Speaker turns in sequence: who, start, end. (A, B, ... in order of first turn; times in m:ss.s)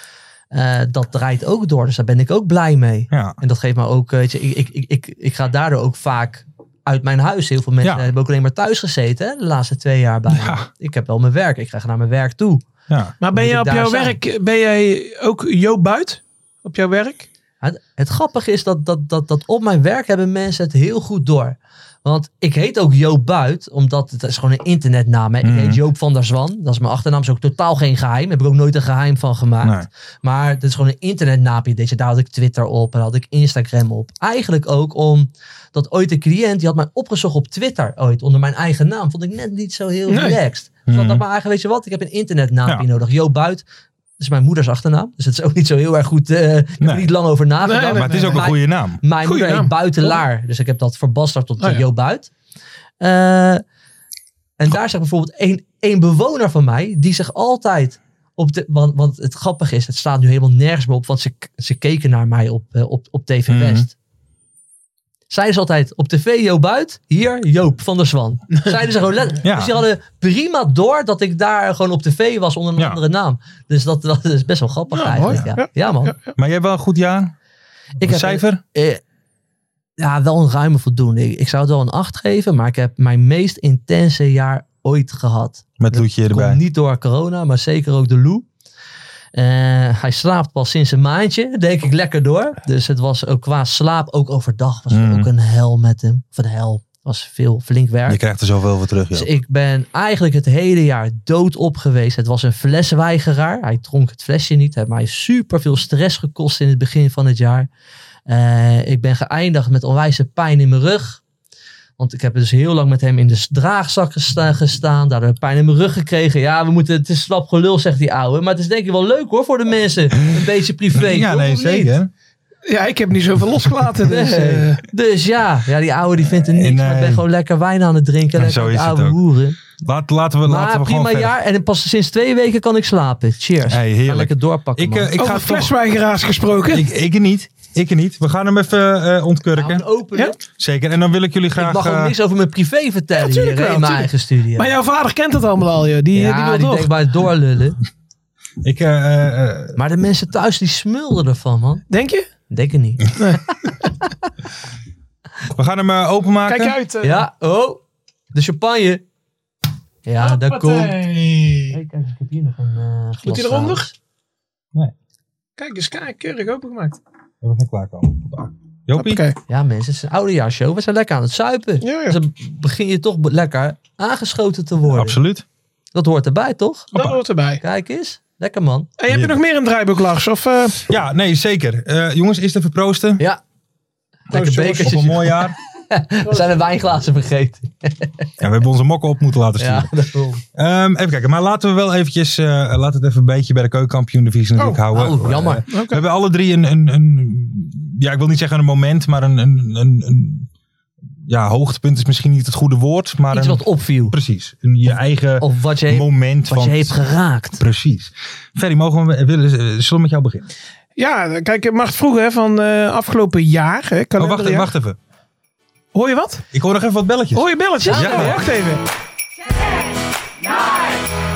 0:00.5-0:12.6 A
0:03.1-0:03.4 B
0:07.8-0:08.1 B
0:10.3-0:10.7 B
0:12.9-0:13.2 B
0:13.2-0:17.3 C
0:13.3-0:14.2 A
0:17.6-0:43.6 A
0:25.4-0:25.8 B
0:29.6-0:29.9 B
0:40.1-0:40.4 C
0:40.9-0:41.2 B
0:44.2-0:52.3 A
0:46.8-0:47.1 B
0:47.6-0:48.5 C
0:47.9-0:49.0 B
0:49.2-0:50.2 C
0:53.0-0:53.6 A
0:54.6-1:03.9 A
1:03.5-1:03.9 B
1:05.3-1:16.2 A
1:09.4-1:09.8 B
1:14.9-1:16.3 C
1:16.4-1:17.3 B
1:18.0-1:19.0 A
1:18.0-1:18.6 B
1:20.0-1:28.5 A
1:25.8-1:26.6 B
1:29.3-1:38.2 A
1:34.9-1:35.3 B
1:38.1-1:39.3 B
1:39.1-1:47.7 A
1:48.3-1:51.2 A
1:52.0-2:02.0 A
2:00.9-2:02.1 B
2:02.7-2:04.8 C
2:04.1-2:09.6 A
2:06.2-2:07.2 B
2:08.4-2:09.2 B
2:09.8-2:11.3 B
2:10.5-2:15.1 A
2:13.7-2:15.7 B
2:15.2-2:16.8 C
2:16.7-2:19.9 B
2:19.6-2:20.4 A
2:20.5-2:22.1 B
2:21.6-2:24.7 A
2:23.2-2:26.9 C
2:26.1-2:27.8 A
2:28.6-2:29.8 B
2:29.8-2:31.8 A
2:31.9-2:32.3 C
2:32.5-2:33.2 A
2:35.6-2:36.8 B
2:36.5-2:37.2 C
2:37.0-2:37.8 A
2:38.3-2:39.0 A
2:40.0-2:40.9 A
2:40.2-2:41.8 C
2:41.7-2:43.9 A
2:43.2-2:43.9 C
2:45.6-2:47.0 C
2:47.4-2:49.2 B
2:49.0-2:49.4 C
2:49.5-2:55.2 A
2:51.8-2:52.2 C
2:54.9-2:55.4 B
2:56.0-2:56.9 A
2:56.9-2:57.2 B
2:56.9-2:57.6 C
2:57.6-2:58.9 A
2:59.0-3:00.8 C
2:59.1-2:59.4 B
3:00.9-3:03.2 B
3:04.3-3:08.3 A
3:04.3-3:05.0 C
3:04.8-3:05.6 B
3:08.4-3:09.9 B
3:09.6-3:10.4 A
3:10.6-3:20.5 B
3:14.9-3:15.6 A
3:15.7-3:16.0 C
3:21.2-3:27.0 B
3:23.3-3:24.2 A
3:25.4-3:27.6 A
3:27.5-3:30.5 B
3:31.0-3:34.7 C
3:34.2-3:35.0 B
3:35.9-3:36.4 C
3:36.5-3:38.4 B
3:37.3-3:38.8 C
3:37.8-3:38.4 A